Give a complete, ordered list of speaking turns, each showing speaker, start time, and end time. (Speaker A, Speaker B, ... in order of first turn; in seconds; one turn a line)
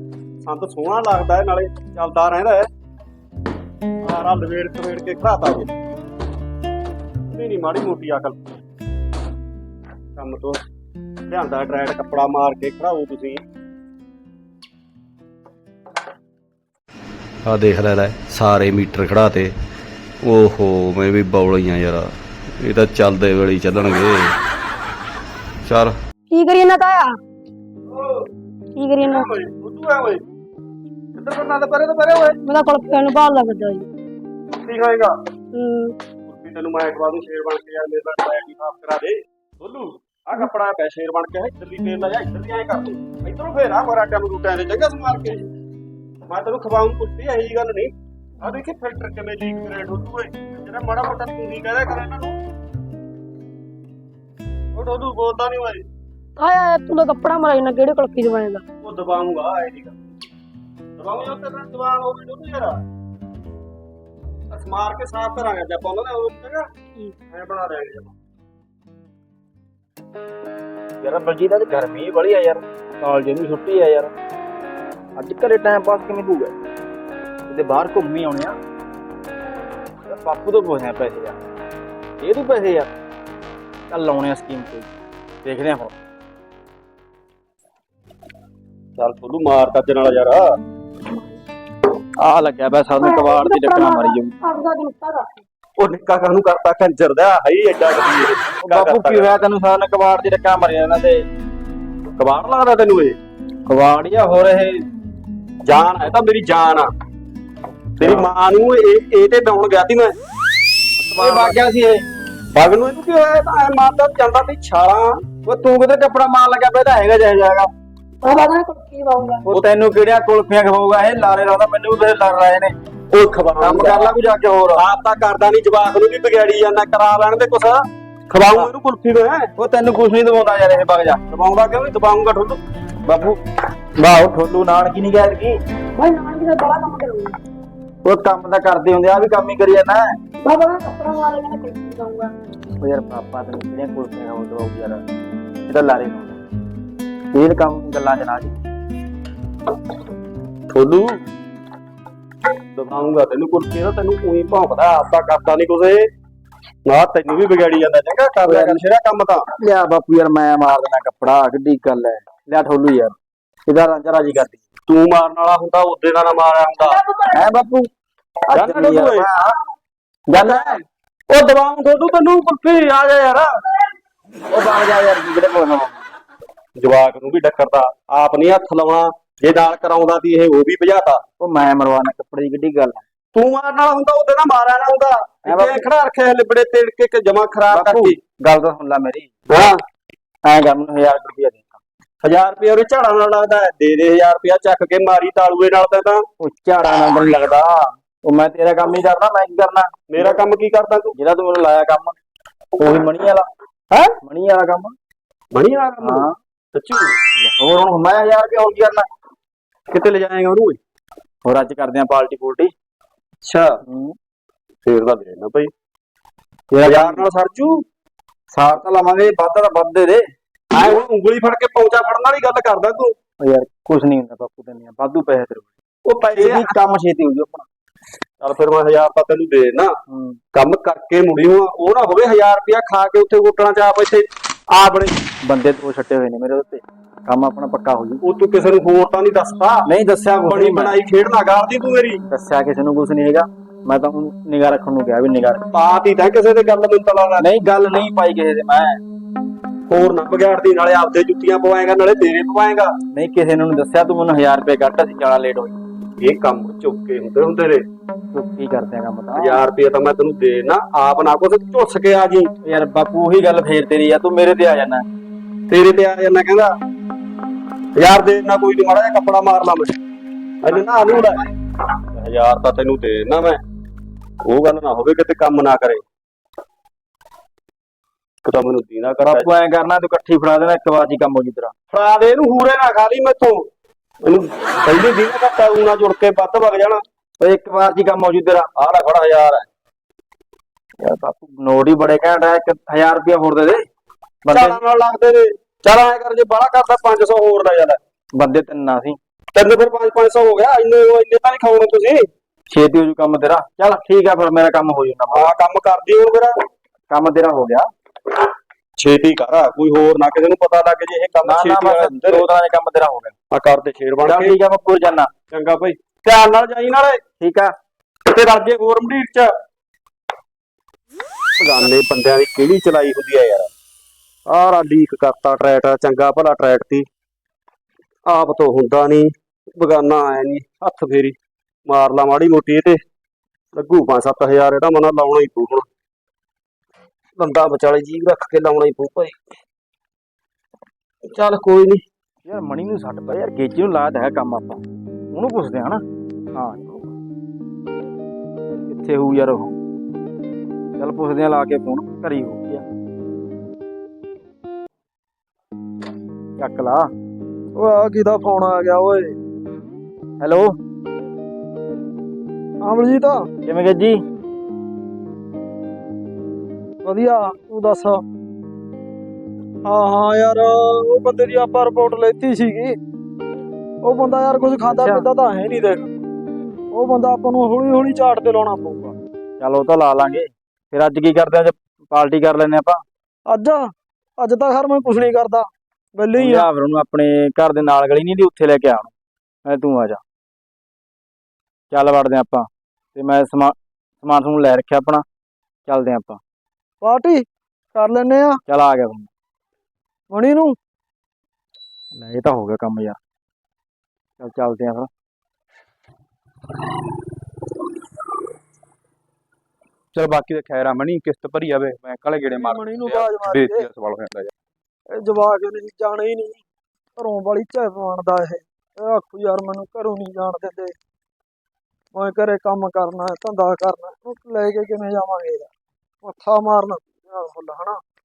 Speaker A: 0.4-2.6
Speaker A: 4.0-5.7
Speaker A: 7.3-8.4
Speaker A: 10.2-10.6
Speaker A: 11.3-13.4
Speaker B: 17.4-19.6
Speaker B: 20.2-24.4
Speaker B: 25.6-26.0
Speaker C: 26.3-27.2
Speaker A: 27.9-28.3
Speaker C: 28.8-29.3
Speaker A: 29.0-30.2
Speaker A: 31.1-32.4
Speaker C: 32.4-33.9
Speaker A: 34.6-35.1
Speaker C: 35.5-36.0
Speaker A: 36.3-45.5
Speaker A: 46.3-52.4
Speaker A: 54.7-55.8
Speaker C: 56.4-58.6
Speaker A: 58.8-59.9
Speaker A: 61.0-62.8
Speaker A: 64.5-66.7
Speaker A: 67.3-68.1
Speaker D: 71.0-74.1
Speaker D: 75.2-76.5
Speaker D: 77.5-78.5
Speaker D: 80.1-81.4
Speaker D: 82.2-82.9
Speaker D: 83.9-84.9
Speaker D: 85.4-85.9
Speaker A: 89.0-90.4
Speaker D: 92.2-94.3
Speaker C: 93.0-95.4
Speaker A: 95.8-99.4
Speaker D: 98.6-101.2
Speaker A: 102.2-103.2
Speaker D: 103.7-104.8
Speaker A: 105.6-106.9
Speaker A: 108.0-110.2
Speaker D: 108.0-108.3
Speaker A: 111.0-111.6
Speaker D: 111.1-112.0
Speaker A: 112.5-115.2
Speaker D: 115.4-117.7
Speaker C: 118.2-119.4
Speaker D: 119.5-122.7
Speaker A: 123.1-124.1
Speaker D: 123.6-124.8
Speaker A: 124.7-129.5
Speaker D: 129.6-131.2
Speaker A: 131.3-132.6
Speaker D: 133.1-133.4
Speaker D: 134.0-135.6
Speaker C: 135.9-137.4
Speaker D: 138.0-140.1
Speaker C: 140.4-142.3
Speaker D: 142.8-145.0
Speaker D: 145.7-146.4
Speaker D: 147.3-148.5
Speaker A: 150.7-151.2
Speaker A: 152.7-156.1
Speaker A: 156.8-159.4
Speaker D: 158.4-158.8
Speaker D: 159.6-163.1
Speaker D: 163.7-164.6
Speaker A: 164.9-167.0
Speaker C: 166.8-167.4
Speaker D: 167.3-167.9
Speaker D: 168.5-169.5
Speaker A: 168.5-169.3
Speaker D: 170.3-170.8
Speaker A: 170.3-173.5
Speaker D: 174.5-176.0
Speaker A: 176.8-181.2
Speaker D: 181.4-183.0
Speaker A: 183.3-188.2
Speaker D: 185.4-185.8
Speaker D: 187.7-189.3
Speaker A: 189.5-189.8
Speaker D: 190.4-191.8
Speaker A: 192.2-196.2
Speaker D: 196.4-200.4
Speaker A: 200.1-201.1
Speaker D: 201.1-202.2
Speaker D: 202.8-203.5
Speaker D: 204.2-204.9
Speaker A: 205.5-207.2
Speaker D: 206.0-206.3
Speaker D: 207.4-209.1
Speaker A: 209.9-210.8
Speaker D: 211.4-212.7
Speaker A: 213.4-213.7
Speaker D: 213.9-214.2
Speaker A: 214.8-215.7
Speaker D: 216.7-217.3
Speaker A: 216.8-217.8
Speaker D: 218.5-220.2
Speaker A: 220.7-223.1
Speaker D: 223.4-225.7
Speaker A: 226.0-226.7
Speaker D: 226.3-227.7
Speaker A: 228.4-229.9
Speaker D: 230.1-230.4
Speaker A: 230.5-235.2
Speaker D: 235.4-238.2
Speaker A: 238.2-239.8
Speaker D: 239.8-240.9
Speaker A: 240.4-242.2
Speaker D: 242.3-245.6
Speaker A: 245.7-247.4
Speaker D: 247.4-249.0
Speaker A: 249.9-252.9
Speaker D: 253.1-255.7
Speaker A: 256.2-257.8
Speaker D: 258.3-259.6
Speaker A: 259.3-262.5
Speaker D: 262.6-265.0
Speaker A: 265.7-266.7
Speaker A: 267.9-269.9
Speaker A: 270.6-271.4
Speaker A: 272.1-273.6
Speaker A: 274.4-276.0
Speaker A: 278.4-279.5
Speaker D: 279.2-281.7
Speaker A: 281.9-283.6
Speaker A: 284.2-287.0
Speaker D: 287.4-288.7
Speaker A: 288.8-289.7
Speaker D: 291.0-293.8
Speaker D: 294.4-294.8
Speaker A: 294.5-298.0
Speaker D: 298.4-299.2
Speaker A: 299.5-302.3
Speaker D: 302.7-305.5
Speaker A: 305.3-306.5
Speaker D: 307.1-307.9
Speaker A: 309.0-312.5
Speaker D: 311.4-313.3
Speaker A: 313.5-314.6
Speaker D: 314.2-315.3
Speaker A: 315.5-317.2
Speaker D: 317.4-317.7
Speaker A: 318.3-319.5
Speaker A: 321.6-323.7
Speaker A: 324.4-327.0
Speaker A: 328.2-331.4
Speaker A: 331.9-333.0
Speaker A: 333.7-335.9
Speaker A: 337.4-339.4
Speaker A: 341.2-342.0
Speaker D: 342.4-346.0
Speaker D: 346.5-347.1
Speaker D: 348.9-349.8
Speaker D: 351.0-352.8
Speaker D: 356.6-357.1
Speaker E: 357.8-359.4
Speaker D: 360.4-360.8
Speaker E: 362.8-363.4
Speaker D: 363.6-364.2
Speaker E: 367.0-368.2
Speaker E: 369.8-372.9
Speaker E: 374.0-376.1
Speaker D: 374.9-375.2
Speaker E: 376.9-379.1
Speaker D: 379.6-383.0
Speaker E: 383.5-386.7
Speaker D: 386.3-389.1
Speaker D: 389.7-390.2
Speaker D: 391.9-395.2
Speaker D: 395.9-396.4
Speaker E: 397.0-398.6
Speaker D: 398.7-399.3
Speaker E: 400.3-400.8
Speaker D: 402.2-403.2
Speaker D: 404.4-405.1
Speaker F: 410.1-414.5
Speaker E: 412.4-413.9
Speaker E: 415.1-416.6
Speaker E: 417.2-420.9
Speaker E: 422.1-425.7
Speaker E: 426.2-428.0